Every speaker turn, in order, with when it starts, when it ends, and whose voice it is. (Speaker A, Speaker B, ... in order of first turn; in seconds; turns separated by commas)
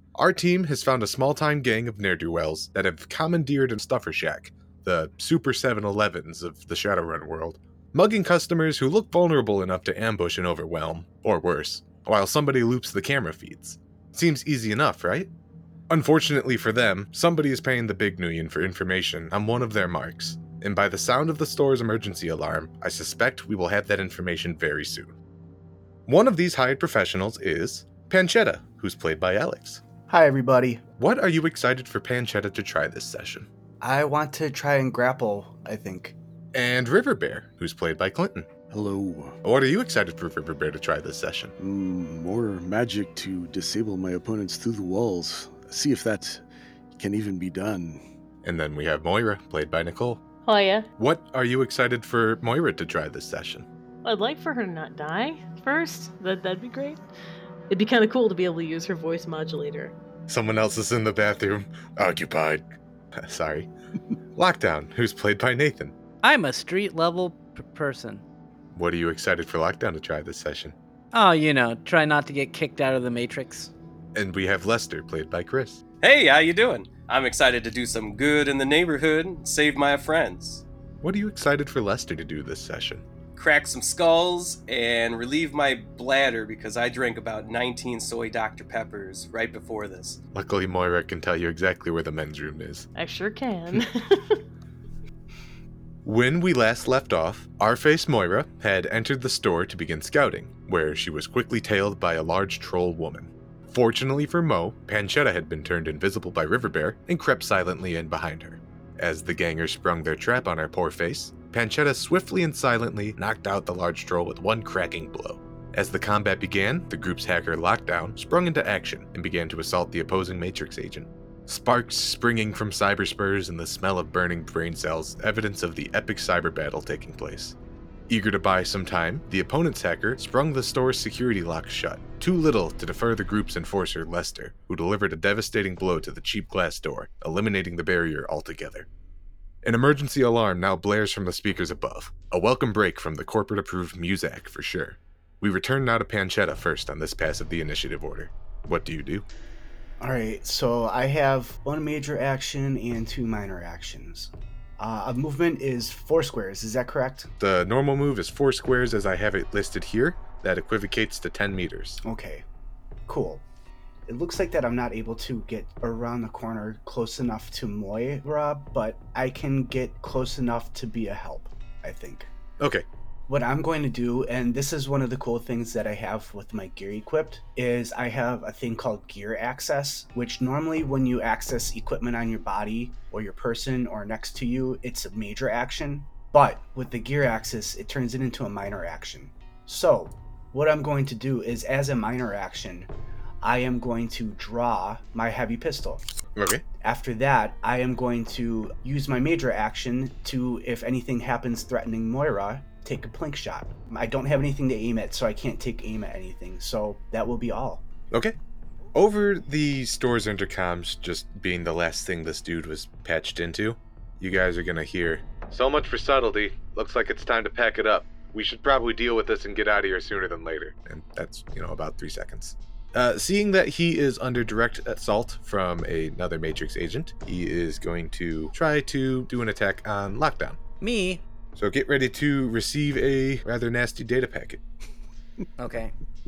Speaker A: 0.1-15.3, Speaker A: 15.9-25.1, Speaker A: 26.1-29.8, Speaker B: 30.1-30.8, Speaker A: 31.0-33.5, Speaker B: 33.8-36.1, Speaker A: 36.5-38.5, Speaker C: 38.7-39.4, Speaker A: 39.4-41.5, Speaker C: 41.6-46.4, Speaker C: 47.0-48.0, Speaker A: 48.4-50.2, Speaker D: 50.4-50.9, Speaker A: 51.0-53.7, Speaker D: 54.0-57.0, Speaker D: 57.7-59.9, Speaker A: 60.3-62.6, Speaker A: 63.1-63.7, Speaker A: 64.3-65.9, Speaker E: 66.2-68.2, Speaker A: 68.8-70.7, Speaker E: 71.1-73.7, Speaker A: 74.1-75.8, Speaker F: 76.0-80.6, Speaker A: 81.0-83.0, Speaker F: 83.3-90.2, Speaker A: 90.3-92.9, Speaker D: 92.9-94.4, Speaker A: 96.0-127.5, Speaker A: 128.1-138.9, Speaker A: 139.6-149.2, Speaker B: 150.0-157.3, Speaker A: 157.4-162.0, Speaker B: 162.0-162.4, Speaker B: 163.1-163.4, Speaker B: 164.1-172.3, Speaker A: 172.6-172.8, Speaker B: 173.3-192.9, Speaker B: 193.4-196.0, Speaker A: 196.3-196.6, Speaker B: 196.8-207.8, Speaker A: 208.9-230.6, Speaker E: 230.8-231.2, Speaker A: 231.6-234.6, Speaker E: 235.6-235.9